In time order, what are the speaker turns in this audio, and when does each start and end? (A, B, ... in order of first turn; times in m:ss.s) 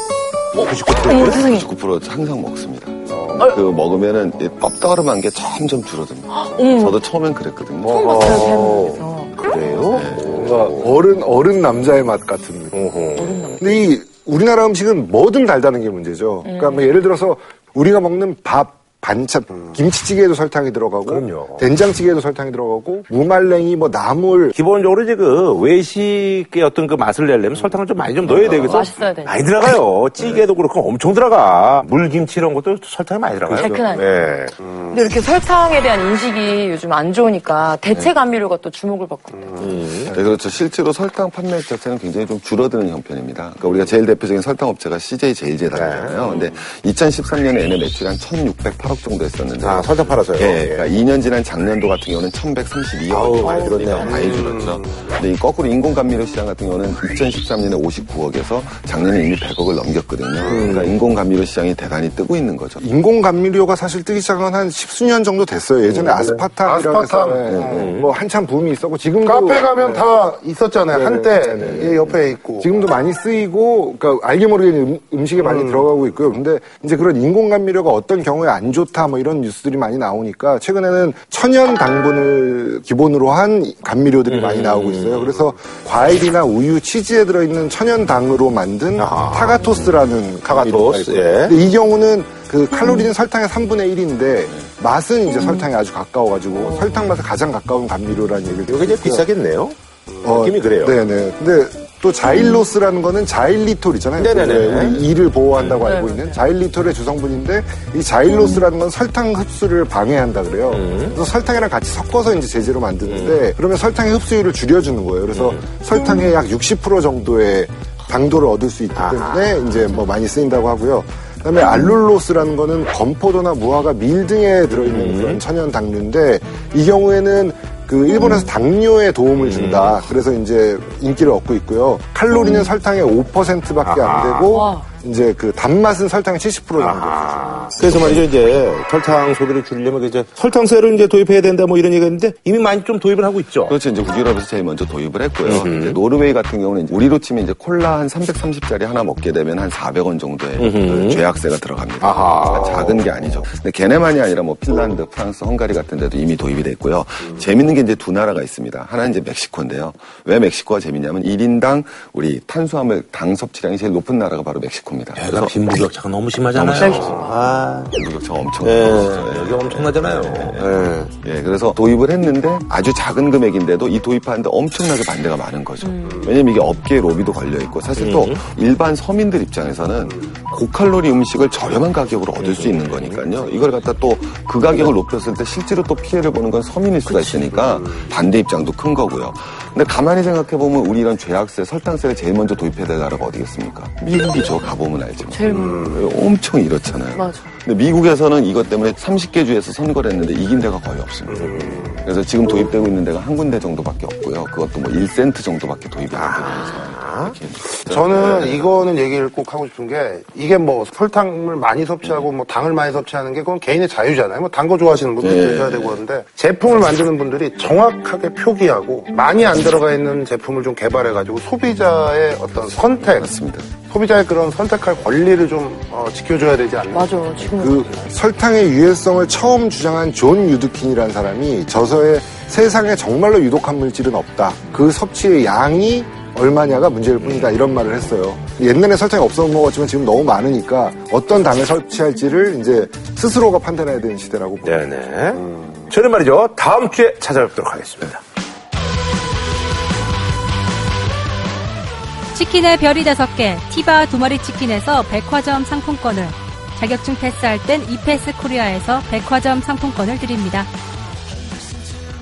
0:00.5-0:01.5 A
0:00.9-0:01.7 B
0:01.4-0:08.0 C
0:03.1-0:03.4 A
0:06.3-0:07.0 B
0:07.8-0:09.4 B
0:07.8-0:10.9 A
0:09.9-0:10.3 C
0:10.3-0:13.0 D
0:12.7-0:13.6 A
0:13.2-0:13.8 B
0:13.6-0:24.6 D
0:16.4-0:17.0 B
0:21.1-0:21.7 A
0:24.5-0:34.6 A
0:28.6-0:29.4 B
0:33.5-0:34.1 B
0:34.9-0:39.7 B
0:39.6-0:40.2 A
0:40.1-1:02.8 C
0:45.7-0:46.4 A
0:49.6-0:50.9 A
0:53.1-0:54.4 A
0:53.4-0:54.3 B
1:00.4-1:01.0 A
1:02.8-1:10.1 D
1:06.2-1:07.9 E
1:07.4-1:07.9 C
1:07.7-1:08.1 A
1:09.2-1:12.7 E
1:10.9-1:39.3 D
1:15.4-1:15.8 E
1:24.3-1:25.4 A
1:29.0-1:31.6 A
1:32.7-1:33.1 B
1:35.3-1:35.7 B
1:36.6-1:37.0 B
1:38.7-1:41.0 A
1:40.2-2:18.2 D
1:42.3-1:42.6 B
1:44.2-1:45.8 A
1:45.8-1:46.4 B
1:50.7-1:51.2 A
1:53.1-1:53.4 A
1:55.3-1:55.6 A
1:59.0-1:59.8 A
2:04.7-2:05.4 A
2:09.4-2:10.0 A
2:12.3-2:12.7 B
2:13.8-2:14.6 A
2:14.5-2:14.9 B
2:16.8-2:23.8 A
2:23.7-2:45.6 C
2:25.4-2:26.0 A
2:30.6-2:31.2 A
2:32.0-2:33.0 A
2:45.2-2:47.9 A
2:46.6-2:47.1 C
2:46.8-2:47.4 B
2:47.9-3:28.6 C
2:48.6-2:51.1 A
2:55.8-2:56.4 B
2:58.0-2:58.4 A
3:02.4-3:03.3 A
3:07.1-3:07.6 B
3:15.3-3:16.1 B
3:15.5-3:15.9 E
3:17.1-3:17.5 B
3:21.3-3:21.9 A
3:21.6-3:21.9 E
3:26.1-3:27.4 A
3:27.8-3:47.2 E
3:35.2-3:36.0 C
3:43.2-3:43.8 C
3:46.9-3:47.9 B
3:47.4-4:04.8 D
3:57.2-3:57.6 A
4:04.6-4:08.2 A
4:12.3-4:20.7 F